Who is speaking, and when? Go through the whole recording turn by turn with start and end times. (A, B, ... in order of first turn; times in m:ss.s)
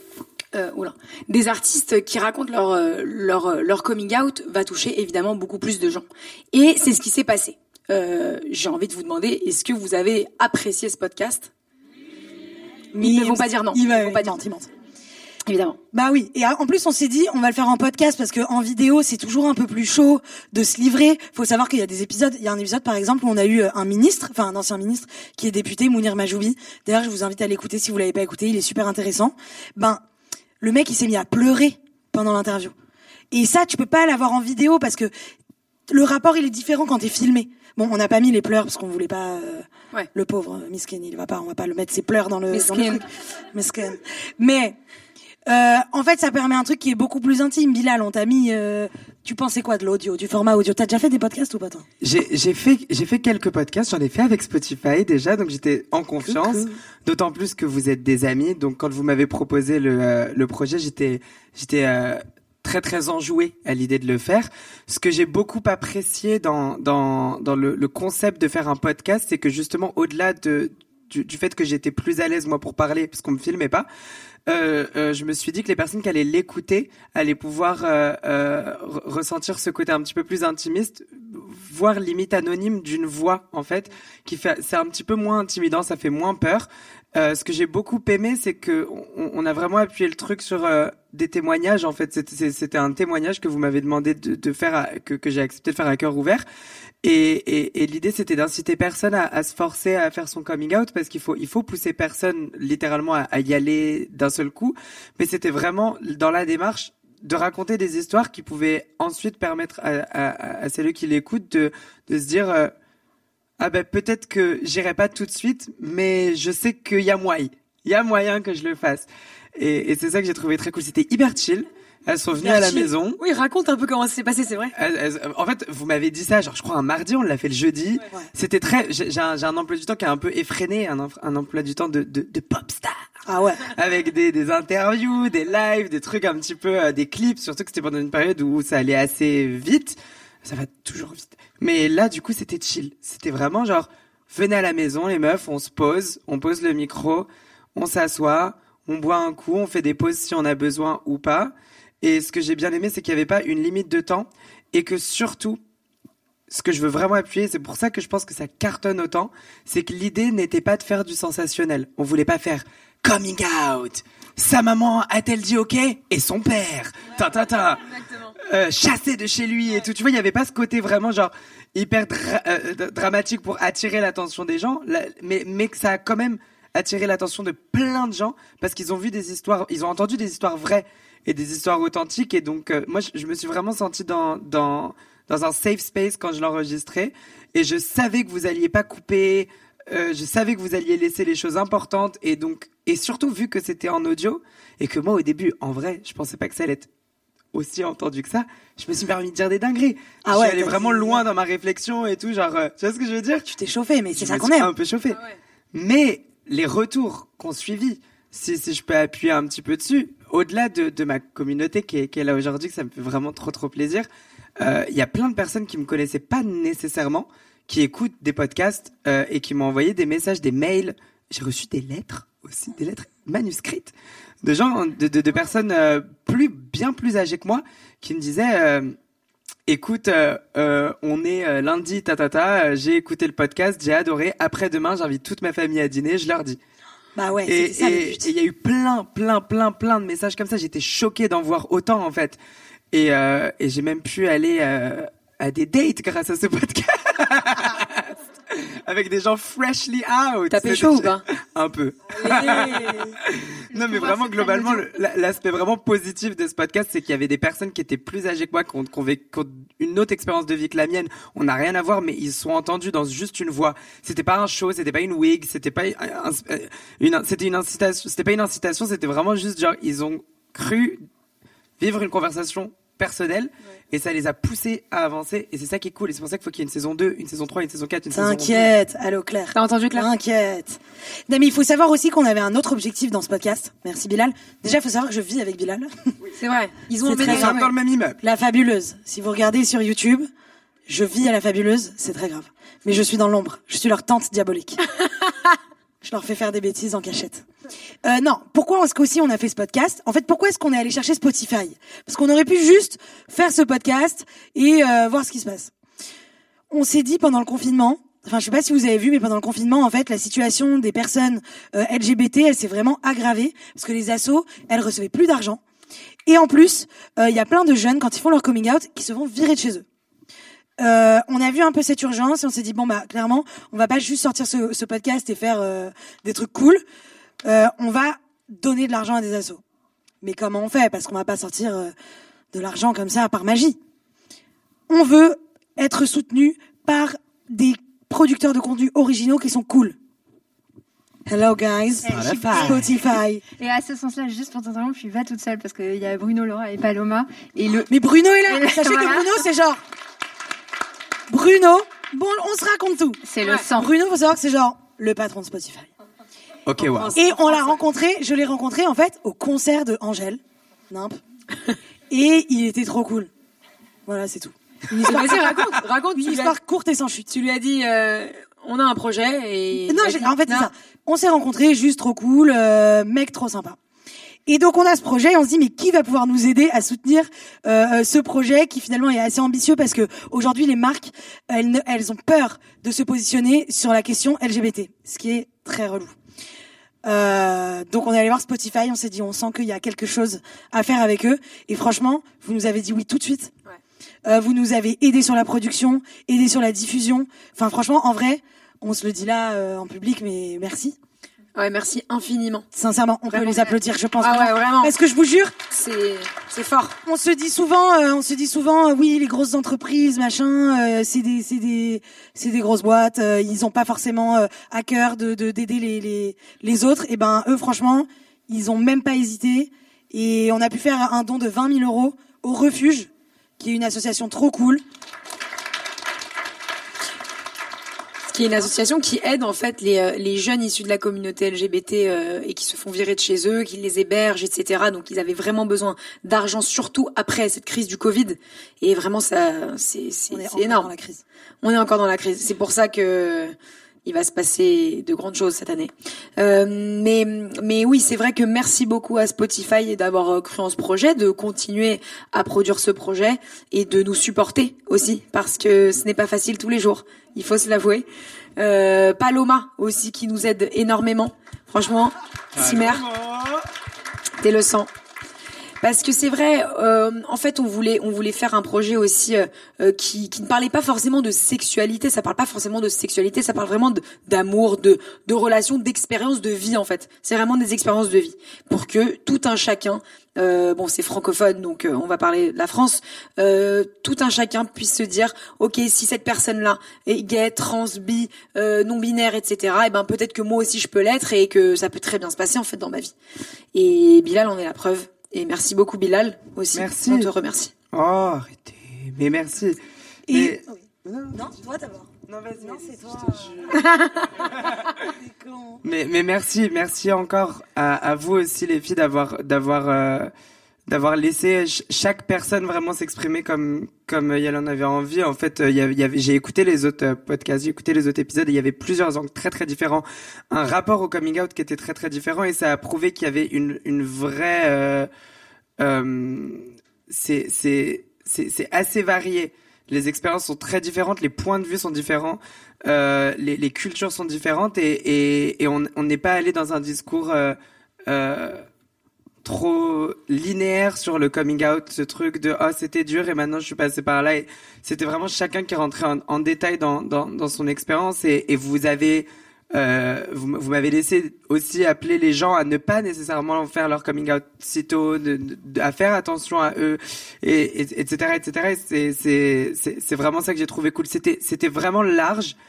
0:00.5-0:11.5 A
0:12.9-0:14.7 B
0:13.0-0:14.4 A
0:15.5-0:15.8 A
0:15.9-0:30.0 B
0:30.6-0:32.7 B
0:33.3-0:35.1 B
0:35.9-0:44.8 B
0:42.5-0:43.0 A
0:45.5-0:51.8 B
0:52.0-1:13.9 C
0:56.2-0:56.8 B
1:14.5-1:36.4 C
1:37.0-1:52.7 C
1:53.6-2:03.2 C
2:02.4-2:04.7 A
2:04.8-2:13.0 C
2:13.2-2:13.6 B
2:13.7-2:35.6 C
2:36.5-3:16.9 C
2:47.2-2:48.3 A
3:17.5-3:23.5 C
3:20.2-3:21.2 B
3:23.5-3:24.7 B
3:24.1-3:25.2 C
3:25.1-3:25.4 A
3:25.7-3:34.1 C
3:34.6-3:49.0 C
3:49.7-3:56.6 C
3:57.2-3:58.3 B
3:57.4-4:02.4 C
4:02.9-4:31.0 C
4:10.5-4:11.2 A
4:12.2-4:13.1 A
4:13.8-4:14.8 A
4:31.8-4:38.7 C
4:38.1-4:45.9 B
4:39.5-4:40.1 A
4:46.4-4:47.6 A
4:47.0-4:50.3 B
4:47.2-4:48.2 C
4:50.8-4:54.8 B
4:56.0-4:57.4 B
4:58.0-5:05.7 B
5:06.7-5:15.6 B
5:16.2-5:19.8 B
5:20.8-5:26.8 B
5:27.4-5:29.6 B
5:30.2-5:31.9 B
5:32.5-5:33.8 B
5:34.9-5:40.0 B
5:41.3-5:43.4 B
5:42.1-5:42.8 C
5:43.6-5:47.9 D
5:47.9-5:49.8 B
5:48.5-5:49.4 D
5:51.3-5:55.9 B
5:53.2-5:53.9 D
5:56.6-5:57.1 C
5:56.8-5:57.8 A
5:57.1-6:01.2 B
6:02.1-6:03.3 B
6:04.0-6:07.3 B
6:05.0-6:06.5 A
6:07.3-6:10.7 A
6:09.8-6:13.8 B
6:14.5-6:26.2 B
6:27.0-6:33.5 B
6:34.2-6:41.0 B
6:41.5-6:42.6 A
6:42.7-6:45.5 B
6:43.3-6:44.9 A
6:45.7-6:47.0 A
6:47.0-7:04.8 B
7:08.3-7:20.9 A
7:20.3-7:21.2 B
7:21.6-7:43.0 A
7:42.5-7:43.6 C
7:44.4-7:44.9 A
7:45.8-8:13.1 A
8:13.7-8:17.7 A
8:16.7-8:17.3 C
8:17.9-8:19.8 C
8:20.3-8:25.8 B
8:20.3-8:21.6 C
8:22.3-8:25.0 C
8:25.8-8:30.3 C
8:30.9-8:45.1 C
8:45.8-8:57.6 C
8:58.1-8:58.6 C
8:59.4-9:22.5 C